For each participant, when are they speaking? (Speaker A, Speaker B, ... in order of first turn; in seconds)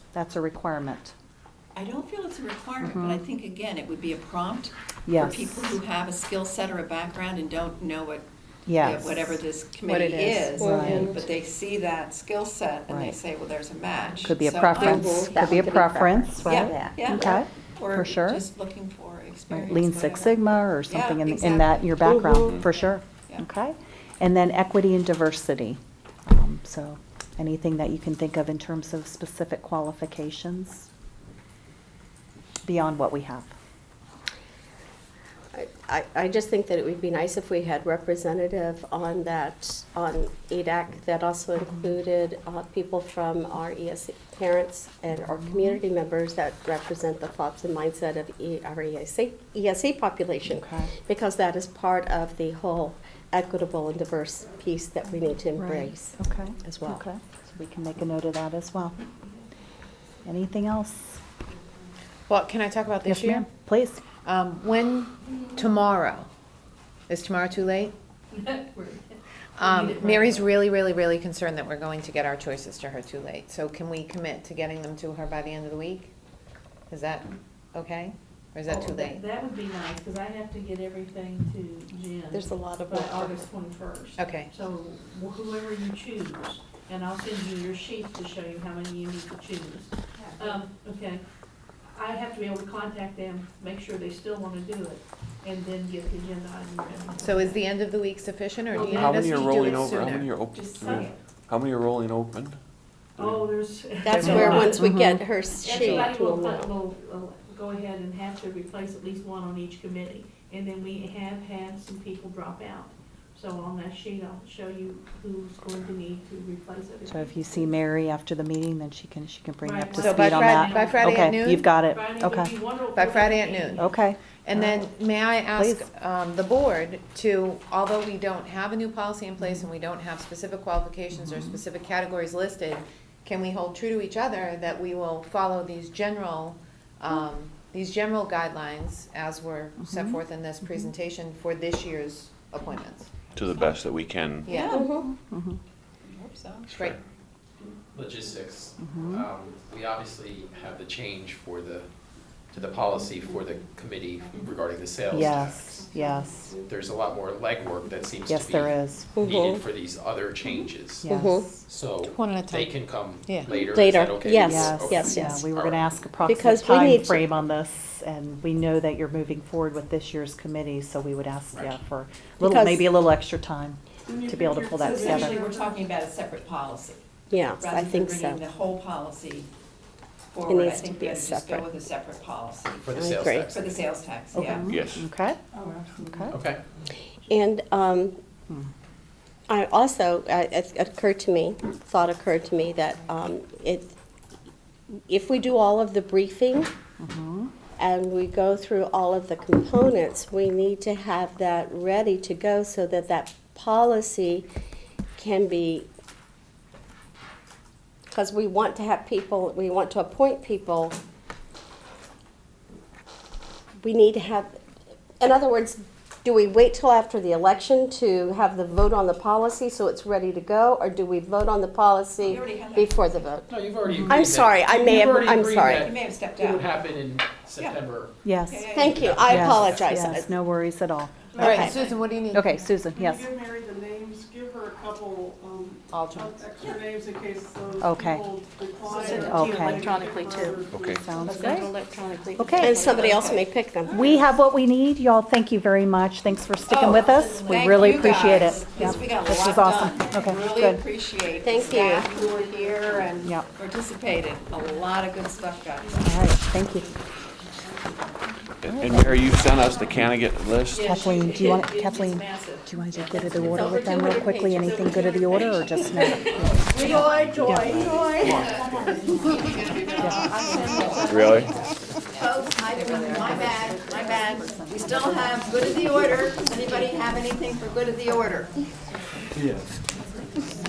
Speaker A: 0.1-1.1, 2.8-3.2, 5.1-5.7, 8.7-9.4, 10.6-11.2, 12.9-13.2, 14.2-18.5, 19.5-30.9, 32.6-33.5, 45.4-45.8, 50.6-50.9, 55.6-59.0, 60.2-61.2, 63.1-64.0, 104.8-105.2, 117.1-122.5, 123.8-124.2, 125.6-125.8, 131.2-131.6, 139.8-140.9, 145.1-145.6, 148.8-149.3, 155.1-156.5, 158.3-159.1, 161.0-161.6, 164.4-175.4, 184.3-186.4, 197.0-197.5, 228.2-228.7, 229.2-231.8, 232.3-233.2, 237.8-238.2, 239.1-239.9, 240.9-241.7, 242.4-242.9, 243.9-250.8, 256.0-256.9, 258.7-259.2, 260.8-267.9, 270.0-270.3, 273.4-274.2
Speaker B: 1.8-15.9, 16.4-21.9, 90.2-90.6, 143.3-143.9, 144.5-145.0, 146.1-146.9, 174.8-177.0, 177.6-179.5, 180.3-182.9, 183.5-184.8, 222.2-223.4, 225.8-226.8, 227.6-227.8, 228.5-229.3, 242.8-244.2, 246.7-256.1, 266.7-268.7, 269.3-271.3, 272.1-278.6
Speaker C: 9.9-11.2, 14.7-17.3, 22.0-22.7, 35.5-57.0, 82.3-83.4, 104.0-106.7, 144.7-145.1, 159.2-159.6, 161.1-161.5, 163.5-165.5, 166.3-167.3, 172.4-172.9, 177.3-178.4, 180.5-181.7, 182.9-183.5, 187.2-188.2, 189.5-193.9, 195.1-196.7, 197.8-204.5, 205.2-205.9, 208.1-211.0, 213.8-214.6, 215.2-223.5, 224.1-225.9, 228.7-230.3, 242.6-244.2, 251.4-252.1, 263.4-264.9
Speaker D: 62.3-63.5, 64.2-66.3, 67.1-67.9, 69.6-76.1, 76.9-79.2, 84.2-84.5, 97.2-100.3, 104.1-104.8, 105.7-106.1, 120.0-121.7, 122.9-123.8, 124.5-143.1, 144.5-144.9, 162.0-163.6, 231.4-232.6, 235.9-236.4
Speaker E: 68.3-70.6, 78.7-91.2, 92.0-97.7, 98.7-99.9, 100.5-101.2, 103.2-104.8, 105.6-117.7, 119.6-121.3, 121.8-124.0, 238.9-240.7, 241.3-243.1, 260.7-264.0, 264.5-266.3, 270.2-271.4
Speaker F: 99.0-102.6, 143.3-144.5, 146.7-146.9, 184.7-185.1, 240.7-241.1, 258.6-261.0, 271.1-271.6, 279.3-279.7
Speaker G: 147.9-151.9, 152.5-155.8, 156.7-161.1, 161.7-166.0, 182.8-183.9, 186.3-186.6, 223.5-228.1, 228.8-230.0
Speaker H: 174.1-175.8, 185.5-186.3, 231.3-231.7, 232.9-242.0, 252.5-252.8